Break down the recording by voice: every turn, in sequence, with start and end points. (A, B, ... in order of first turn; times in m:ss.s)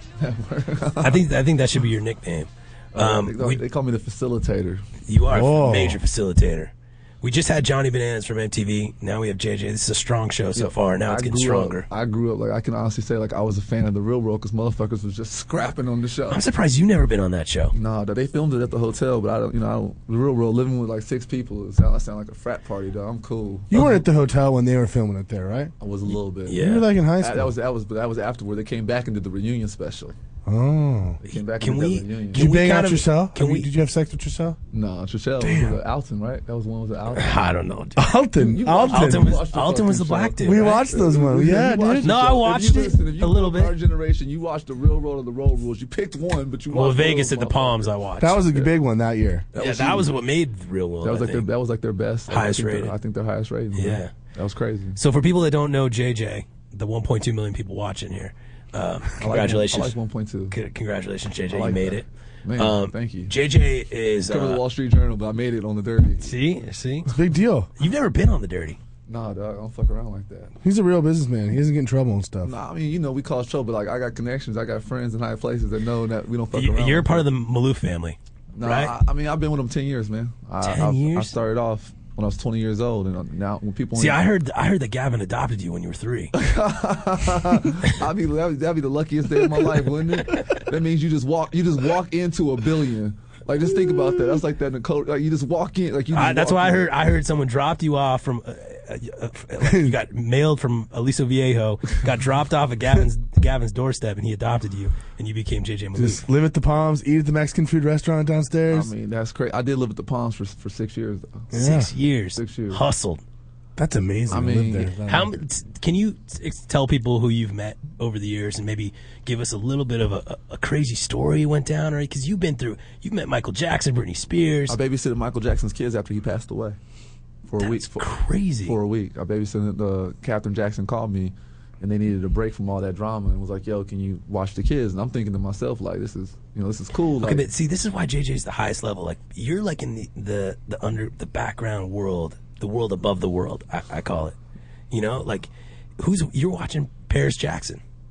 0:00.2-0:01.2 A
0:01.0-0:03.6 B
0:02.9-0:04.8 A
0:05.1-0:11.9 B
0:05.3-0:06.0 C
0:10.6-0:16.4 A
0:16.3-0:17.7 B
0:17.7-0:23.7 A
0:23.7-0:25.7 C
0:25.8-0:26.6 A
0:26.5-0:26.9 B
0:26.5-0:27.5 C
0:27.2-0:30.1 A
0:30.4-0:31.2 C
0:31.2-0:32.4 A
0:31.6-0:33.7 B
0:32.3-0:34.6 C
0:34.7-0:37.4 A
0:35.4-0:35.8 C
0:37.1-0:38.0 B
0:38.0-0:39.4 C
0:38.4-0:47.9 A
0:38.9-0:40.9 B
0:40.4-0:42.2 C
0:42.0-0:43.7 B
0:46.7-0:48.7 B
0:48.2-0:49.5 C
0:49.5-0:50.1 A
0:49.6-0:51.5 B
0:51.0-0:55.0 A
0:52.3-0:52.9 B
0:53.8-0:54.1 B
0:55.0-0:59.9 B
0:59.2-1:00.5 A
1:00.5-1:02.0 B
1:01.5-1:03.3 A
1:02.6-1:04.6 B
1:04.3-1:06.3 A
1:06.2-1:07.1 B
1:07.1-1:07.7 C
1:07.8-1:08.8 B
1:09.1-1:10.5 A
1:10.6-1:12.5 C
1:12.4-1:17.2 A
1:16.5-1:18.9 B
1:18.6-1:24.2 A
1:20.6-1:21.4 B
1:24.0-1:26.3 B
1:26.3-1:36.9 A
1:36.1-1:46.2 B
1:39.6-1:39.9 C
1:45.9-1:48.9 C
1:48.7-1:51.5 A
1:51.5-1:51.9 C
1:51.5-1:53.2 B
1:52.4-1:52.8 A
1:53.8-1:55.4 C
1:54.3-1:54.9 A
1:55.0-2:04.8 B
2:04.7-2:06.8 A
2:07.5-2:08.1 A
2:07.6-2:08.8 B
2:08.6-2:17.4 A
2:17.2-2:24.3 B
2:24.9-2:27.8 B